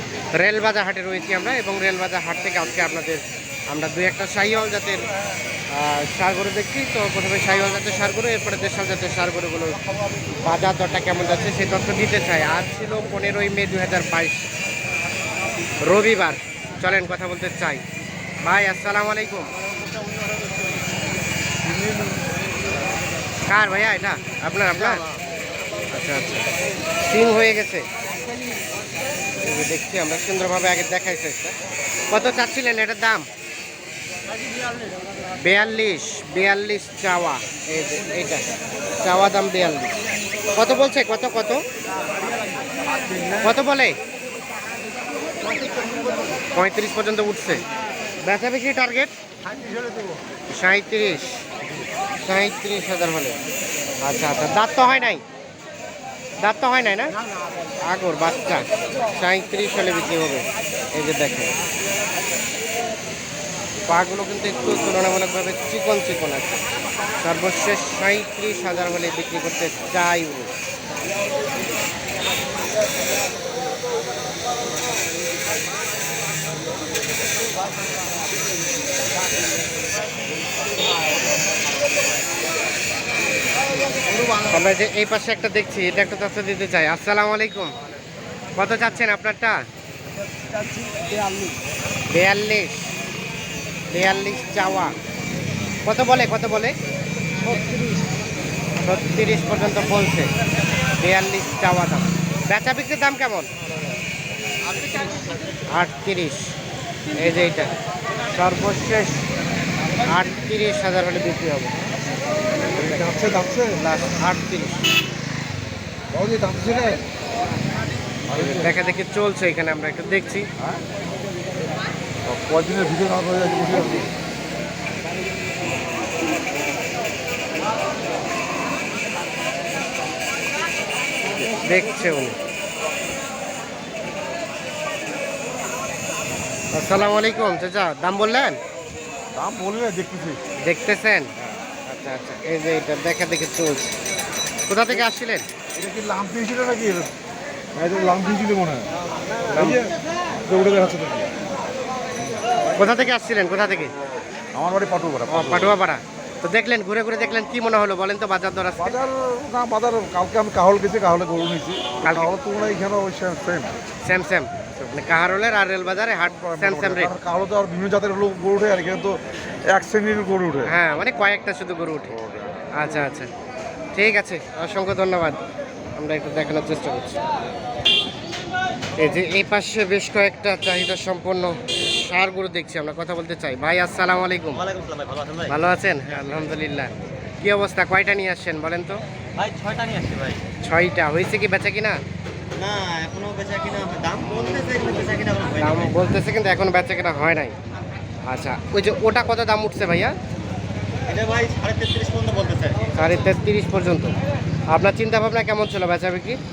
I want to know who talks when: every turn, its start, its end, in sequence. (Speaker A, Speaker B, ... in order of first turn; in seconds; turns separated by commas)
Speaker A: 0.3-5.0, Speaker A: 5.7-9.8, Speaker B: 9.7-10.4, Speaker A: 10.4-14.5, Speaker A: 15.8-17.8, Speaker A: 18.4-19.5, Speaker B: 19.6-20.8, Speaker C: 21.7-22.0, Speaker A: 23.4-25.0, Speaker A: 25.9-26.5, Speaker A: 27.0-27.9, Speaker A: 29.4-31.6, Speaker A: 32.1-33.3, Speaker A: 35.4-38.5, Speaker A: 39.0-40.0, Speaker A: 40.5-41.6, Speaker B: 42.5-43.4, Speaker A: 43.4-44.0, Speaker B: 45.4-46.3, Speaker A: 46.5-47.6, Speaker A: 48.2-49.1, Speaker A: 50.5-51.4, Speaker A: 52.2-53.4, Speaker A: 54.0-55.2, Speaker A: 56.4-57.1, Speaker A: 57.8-61.5, Speaker A: 63.9-66.6, Speaker A: 67.2-70.5, Speaker A: 84.4-87.7, Speaker A: 88.5-89.6, Speaker A: 92.1-92.9, Speaker A: 93.9-94.9, Speaker A: 95.8-96.8, Speaker A: 98.8-100.3, Speaker A: 100.9-103.5, Speaker B: 104.6-105.6, Speaker A: 105.7-106.5, Speaker A: 107.2-107.7, Speaker A: 108.3-109.2, Speaker A: 110.0-111.9, Speaker A: 112.7-113.2, Speaker C: 112.8-113.8, Speaker A: 113.8-114.9, Speaker C: 116.1-117.0, Speaker C: 118.3-118.7, Speaker A: 118.3-120.5, Speaker C: 122.2-124.1, Speaker A: 131.5-132.4, Speaker A: 136.7-138.6, Speaker C: 139.3-140.4, Speaker A: 140.6-141.3, Speaker A: 141.8-143.9, Speaker A: 144.7-145.4, Speaker C: 145.8-147.1, Speaker C: 147.7-148.9, Speaker A: 149.5-149.8, Speaker C: 149.5-149.9, Speaker C: 150.4-151.3, Speaker A: 152.8-153.9, Speaker C: 154.5-155.7, Speaker A: 155.3-159.0, Speaker C: 158.8-163.7, Speaker A: 162.0-162.3, Speaker A: 164.0-167.2, Speaker C: 166.3-170.7, Speaker A: 170.7-172.2, Speaker A: 172.8-173.3, Speaker A: 173.9-175.4, Speaker A: 176.0-177.2, Speaker A: 179.0-184.6, Speaker B: 184.5-186.5, Speaker A: 185.5-189.0, Speaker B: 189.4-190.4, Speaker A: 190.6-192.0, Speaker B: 192.6-195.9, Speaker A: 195.6-197.5, Speaker A: 198.2-200.2, Speaker B: 201.1-203.2, Speaker A: 203.0-204.1, Speaker A: 204.7-206.4